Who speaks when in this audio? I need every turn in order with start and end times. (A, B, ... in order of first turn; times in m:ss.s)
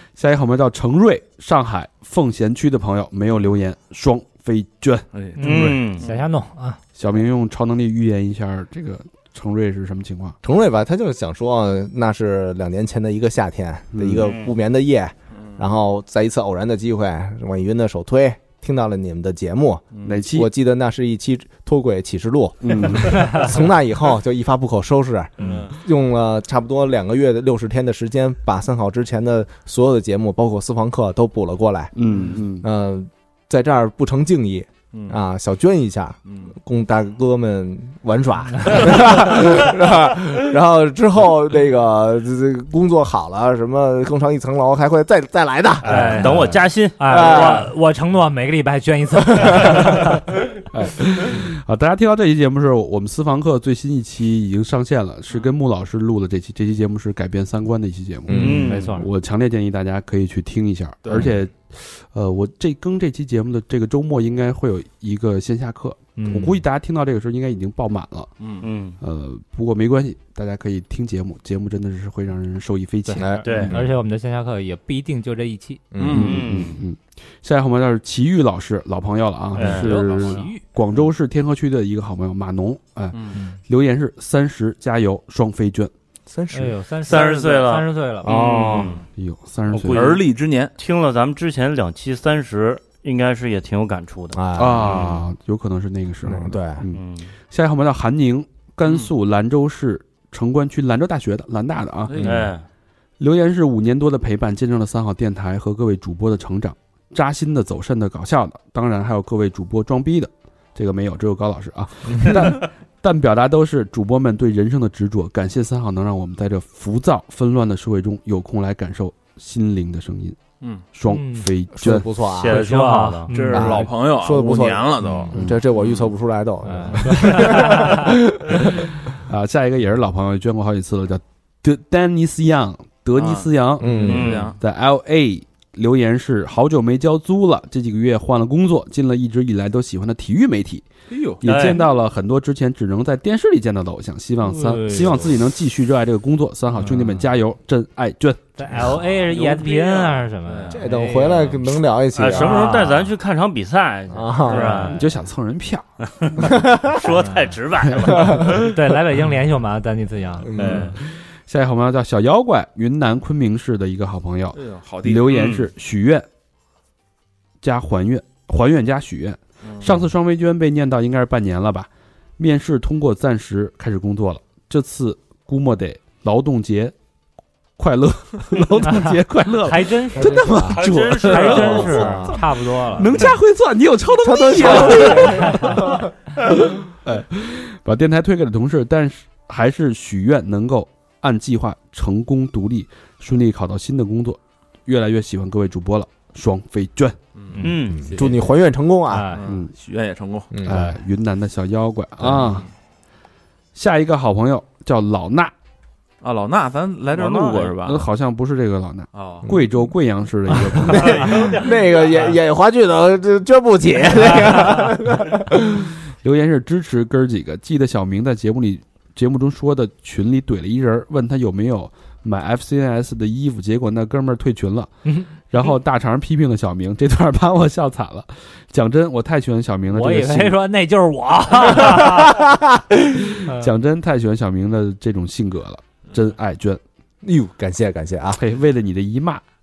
0:00.2-0:05.0 A
0:05.1-0:06.2 B
0:05.4-0:06.8 C
0:05.4-0:06.0 D
0:07.0-0:10.4 A
0:10.4-0:31.9 E
0:13.9-0:14.3 A
0:14.2-0:14.5 D
0:15.3-0:15.6 B
0:19.9-0:20.2 B
0:20.0-0:20.5 A
0:22.6-0:23.5 A
0:25.4-0:25.8 B
0:25.4-0:25.6 A
0:31.9-0:32.6 A
0:32.6-0:46.4 E
0:34.9-0:35.2 B
0:36.2-0:36.5 B
0:45.8-0:47.7 D
0:45.8-0:50.1 C
0:47.1-0:47.7 E
0:49.4-0:49.8 E
0:50.7-1:08.3 A
0:58.3-0:58.7 E
0:58.3-0:59.1 C
0:58.3-0:58.9 D
1:01.0-1:01.3 B
1:06.2-1:06.5 C
1:08.4-1:08.6 B
1:08.6-1:09.0 D
1:09.0-1:13.8 A
1:13.0-1:15.8 C
1:13.2-1:13.9 E
1:13.4-1:13.7 D
1:15.9-1:16.5 E
1:16.0-1:16.4 B
1:16.0-1:25.9 A
1:16.1-1:16.8 D
1:19.6-1:20.2 D
1:19.6-1:20.6 C
1:23.1-1:23.4 B
1:26.3-1:26.8 E
1:26.5-1:28.3 C
1:27.0-1:29.0 D
1:28.2-1:28.9 E
1:28.5-1:29.0 B
1:29.2-1:30.2 A
1:29.7-1:30.2 D
1:29.9-1:30.7 B
1:30.8-1:34.4 D
1:34.3-1:35.1 E
1:34.6-1:42.4 A
1:36.2-1:36.8 E
1:36.9-1:37.3 D
1:42.1-1:42.3 B
1:42.2-1:42.5 E
1:42.2-1:42.6 D
1:43.2-2:00.4 A
1:52.1-1:52.5 E
2:00.9-2:02.1 A
2:01.1-2:01.5 C
2:01.8-2:02.6 E
2:02.4-2:03.3 D
2:02.4-2:03.9 C
2:03.3-2:06.1 B
2:03.5-2:08.9 E
2:05.3-2:05.6 A
2:06.6-2:08.0 C
2:09.1-2:20.9 A
2:13.2-2:14.6 B
2:13.8-2:14.4 E
2:14.0-2:14.5 D
2:21.1-2:21.7 B
2:21.4-2:28.7 A
2:21.4-2:21.8 D
2:24.4-2:25.4 C
2:28.6-2:33.1 C
2:29.2-2:30.8 B
2:30.7-2:32.7 E
2:32.1-2:35.0 D
2:34.1-2:34.9 E
2:34.5-2:35.0 B
2:34.9-2:36.6 A
2:36.2-2:38.7 D
2:36.4-2:37.0 E
2:37.2-2:37.5 C
2:37.9-2:38.2 A
2:38.4-2:40.9 C
2:40.4-2:40.9 E
2:40.6-2:40.9 B
2:41.0-2:46.3 A
2:44.5-2:45.3 B
2:45.3-2:45.7 D
2:47.6-2:56.9 A
2:49.6-2:50.0 B
2:57.8-3:01.8 A
2:59.6-3:03.3 C
3:00.1-3:02.4 E
3:00.7-3:02.2 D
3:02.9-3:17.2 A
3:04.2-3:06.2 E
3:04.8-3:05.7 C
3:17.4-3:18.4 B
3:17.5-3:18.0 C
3:17.6-3:18.1 D
3:17.9-3:19.3 E
3:19.1-3:19.4 C
3:19.3-3:20.5 B
3:19.4-3:19.7 A
3:20.5-3:20.9 E
3:20.6-3:22.7 A
3:22.4-3:22.7 B
3:23.7-3:25.5 A
3:26.2-3:28.0 B
3:27.1-3:27.7 D
3:27.8-3:31.6 A
3:29.1-3:29.5 B
3:29.4-3:29.8 E
3:30.6-3:35.9 E
3:36.2-3:44.9 A
3:45.4-3:50.6 A
3:49.9-3:52.4 C
3:51.9-3:52.5 E
3:53.1-3:56.8 A
3:53.4-3:53.7 C
3:57.2-3:58.4 E
3:58.3-3:59.4 A